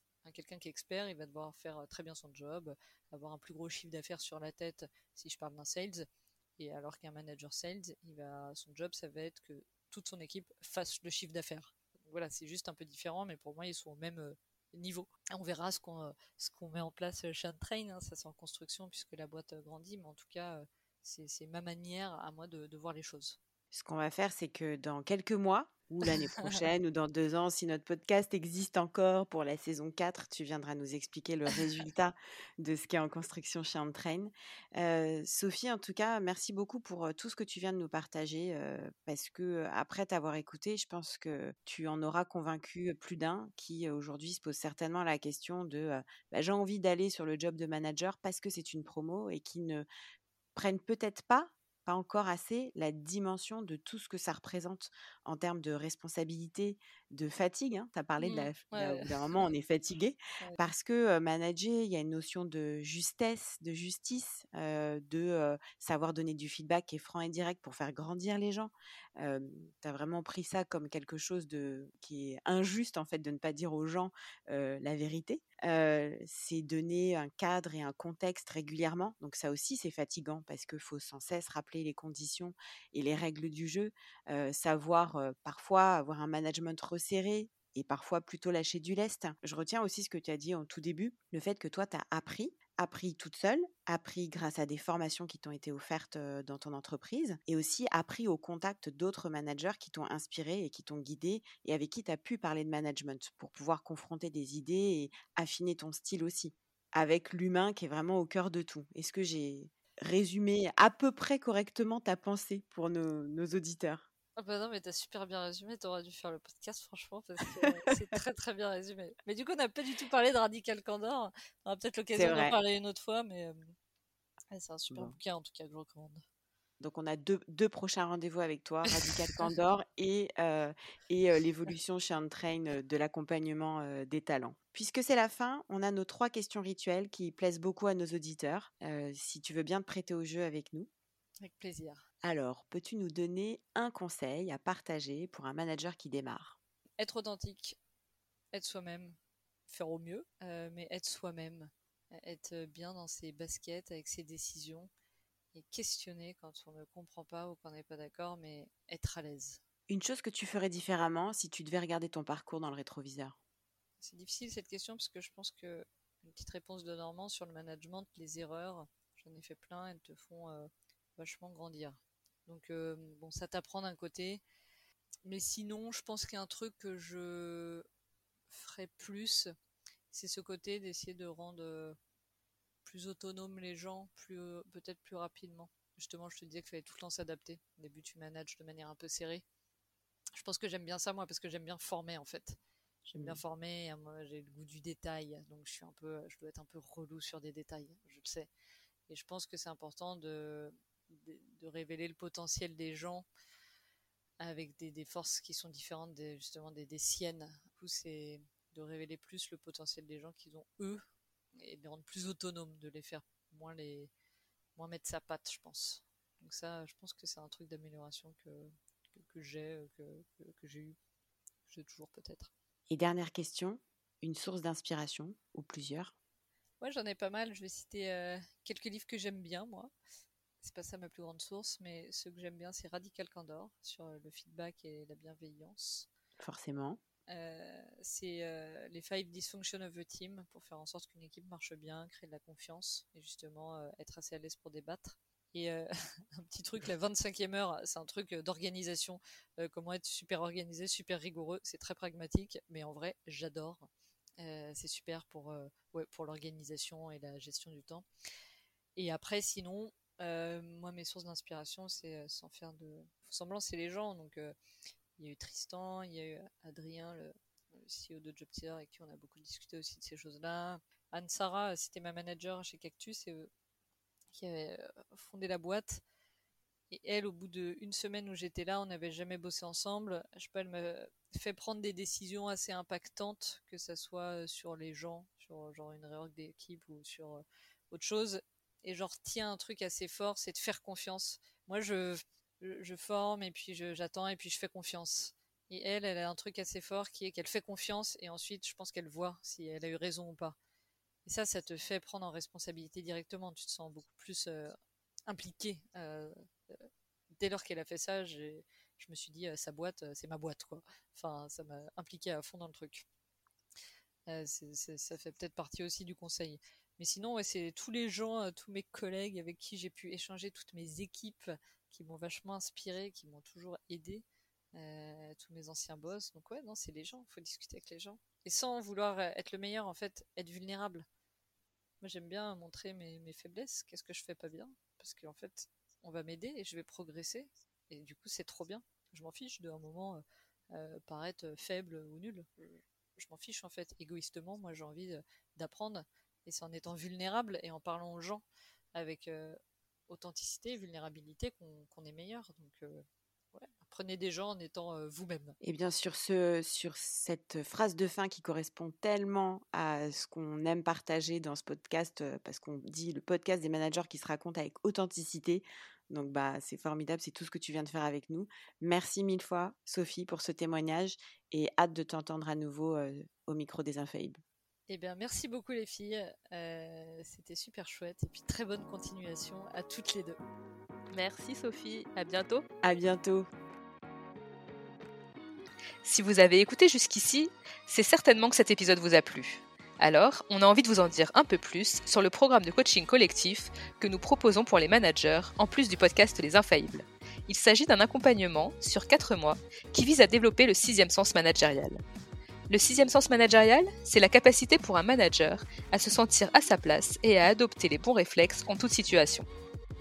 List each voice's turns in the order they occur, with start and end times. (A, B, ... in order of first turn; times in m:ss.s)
0:00.2-0:23.4 A
0:23.7-0:49.9 B
0:50.6-1:54.1 B
0:58.2-0:59.2 A
1:54.4-2:03.7 A
1:57.6-1:57.9 B
2:02.1-2:02.6 B
2:04.5-2:06.2 A
2:04.9-2:05.2 B
2:06.8-2:20.9 B
2:09.0-2:09.4 A
2:21.4-2:22.0 A
2:22.2-2:26.6 B
2:27.0-2:27.8 A
2:28.5-2:29.2 A
2:29.7-2:34.9 A
2:35.5-2:39.6 A
2:39.9-2:43.4 B
2:44.0-2:54.4 A
2:55.2-2:57.9 A
2:58.5-2:59.5 A
3:00.1-3:02.0 A
3:02.8-3:09.4 A
3:10.3-3:18.5 A
3:13.1-3:13.4 B
3:19.1-3:23.3 A
3:24.4-3:31.0 A
3:31.6-3:34.1 A
3:34.8-3:41.0 A
3:41.7-3:42.5 A
3:42.9-3:46.1 B
3:46.8-3:49.9 A
3:50.6-3:56.1 A
3:56.4-3:57.0 B
3:57.3-4:13.9 A
4:14.4-4:18.0 A
4:19.0-4:24.6 A
4:25.2-4:33.5 A
4:34.3-4:36.0 A
4:36.9-5:00.6 A
5:01.3-5:13.0 A
5:14.3-5:31.0 A
5:32.0-5:55.6 A
5:55.6-6:14.4 B
6:14.9-6:20.4 A
6:21.1-6:22.6 C
6:22.8-6:23.5 B
6:26.0-6:42.0 C
6:42.7-6:49.5 C